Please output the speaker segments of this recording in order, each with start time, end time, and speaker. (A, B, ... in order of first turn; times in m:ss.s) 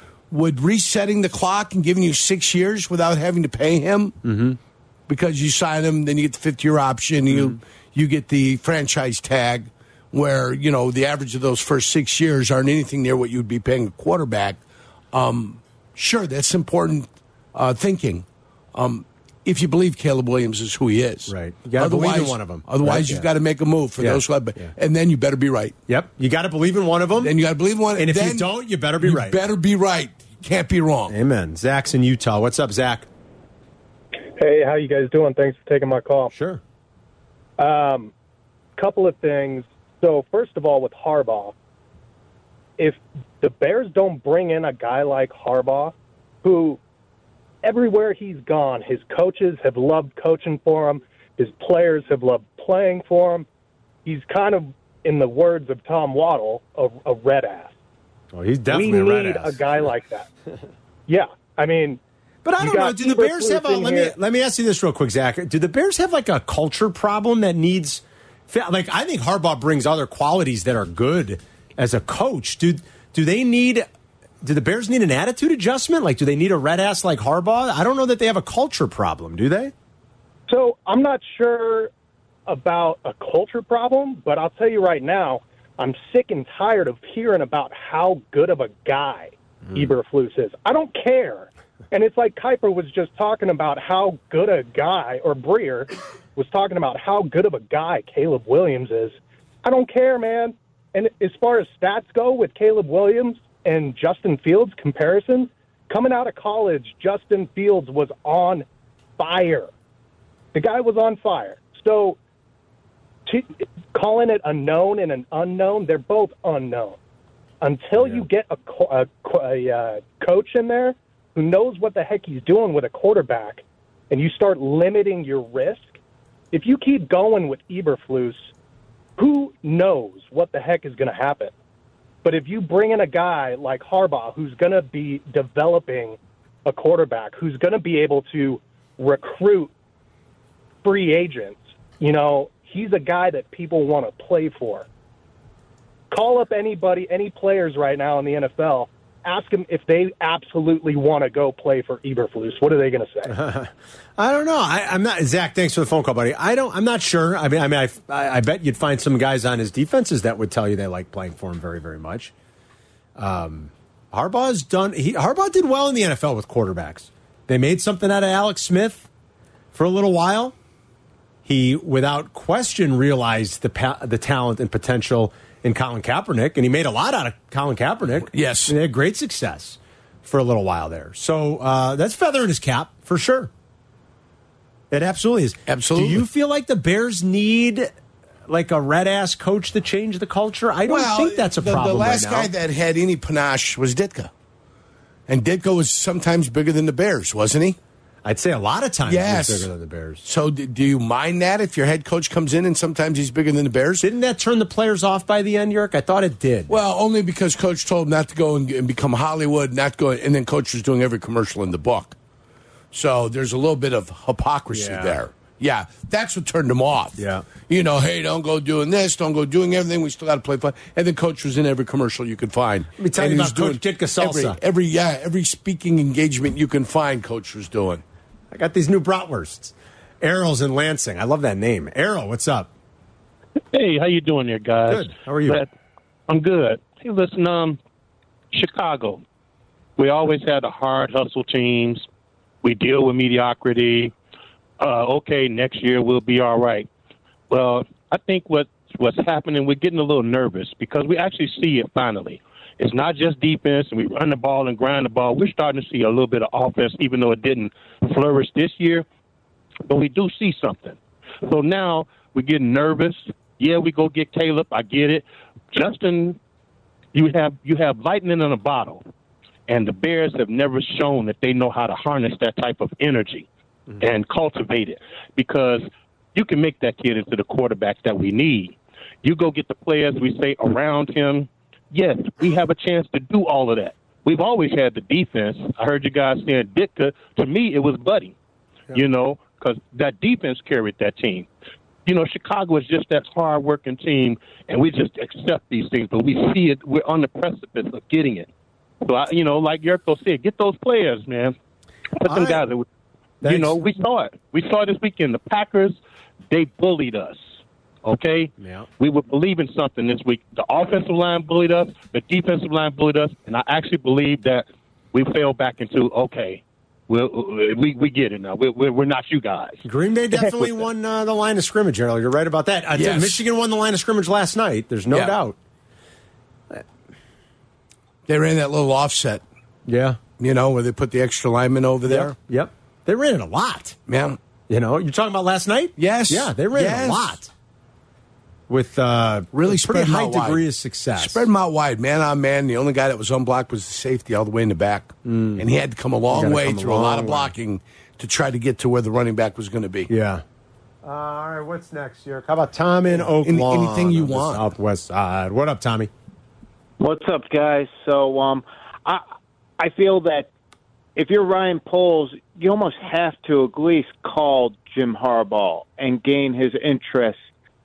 0:00.3-0:04.2 A
0:04.2-0:04.6 B
0:05.1-0:14.6 A
0:07.3-0:07.6 B
0:15.1-0:25.7 A
0:21.3-0:23.3 B
0:24.0-0:24.7 B
0:25.9-0:27.3 B
0:27.2-0:28.5 A
0:27.9-0:29.4 B
0:29.0-0:31.1 A
0:31.1-0:33.1 B
0:34.4-0:36.3 C
0:36.3-0:36.6 B
0:37.6-0:38.1 C
0:38.8-0:41.5 C
0:42.8-0:46.8 C
0:47.6-0:53.5 C
0:54.0-0:57.7 C
0:58.3-0:59.7 B
0:58.7-1:00.3 C
1:01.1-1:02.0 C
1:02.4-1:13.9 B
1:02.6-1:04.2 C
1:14.4-1:19.7 B
1:20.5-1:21.9 C
1:22.5-1:48.6 C
1:49.2-1:49.7 C
1:50.5-1:52.2 C
1:53.2-1:57.0 C
1:57.6-2:06.0 C
1:58.0-1:58.2 B
2:06.5-2:08.5 C
2:09.2-2:11.5 C
2:12.2-2:19.7 C
2:20.8-2:24.8 C
2:26.1-2:33.4 C
2:33.3-2:42.3 B
2:43.2-2:49.1 B
2:49.7-2:50.5 B
2:51.4-3:03.5 B
2:58.3-2:58.7 A
3:04.9-3:07.9 B
3:05.7-3:06.2 A
3:08.5-3:12.5 B
3:10.9-3:14.3 A
3:15.3-3:17.8 A
3:18.2-3:20.2 B
3:19.0-3:19.7 A
3:20.2-3:24.0 A
3:24.0-3:26.7 B
3:26.7-3:32.1 A
3:32.9-3:48.0 A
3:34.7-3:35.2 B
3:37.2-3:37.5 B
3:43.0-3:44.6 B
3:48.5-3:52.7 B
3:53.7-3:55.7 D
3:54.9-3:55.6 B
3:56.3-3:57.8 D
3:58.5-3:59.2 D
4:00.0-4:02.0 D
4:02.6-4:04.1 D
4:04.8-4:06.9 D
4:07.5-4:19.0 D
4:19.9-4:26.4 D
4:27.1-4:29.1 D
4:29.7-4:33.5 D
4:34.0-4:48.3 D
4:48.9-4:51.5 D
4:52.0-4:58.5 D
4:59.0-5:01.5 D
5:02.2-5:02.8 D
5:02.2-5:02.6 B
5:03.4-5:03.8 B
5:03.4-5:06.0 D
5:06.5-5:07.4 D
5:08.0-5:20.8 D
5:08.6-5:08.9 B
5:19.8-5:25.6 B
5:23.0-5:23.4 A
5:28.3-5:29.4 A
5:29.8-5:30.2 B
5:30.4-5:32.3 A
5:32.1-5:34.0 B
5:34.1-5:34.4 A
5:34.7-5:37.5 B
5:36.0-5:37.4 A
5:38.7-5:41.4 B
5:39.5-5:40.6 A
5:41.2-5:50.1 A
5:45.2-5:45.6 B
5:46.3-5:47.5 B
5:50.1-5:50.4 B
5:51.0-5:56.1 B
5:53.2-5:54.6 A
5:57.0-5:59.2 E
5:59.8-6:00.5 E
6:01.2-6:07.4 E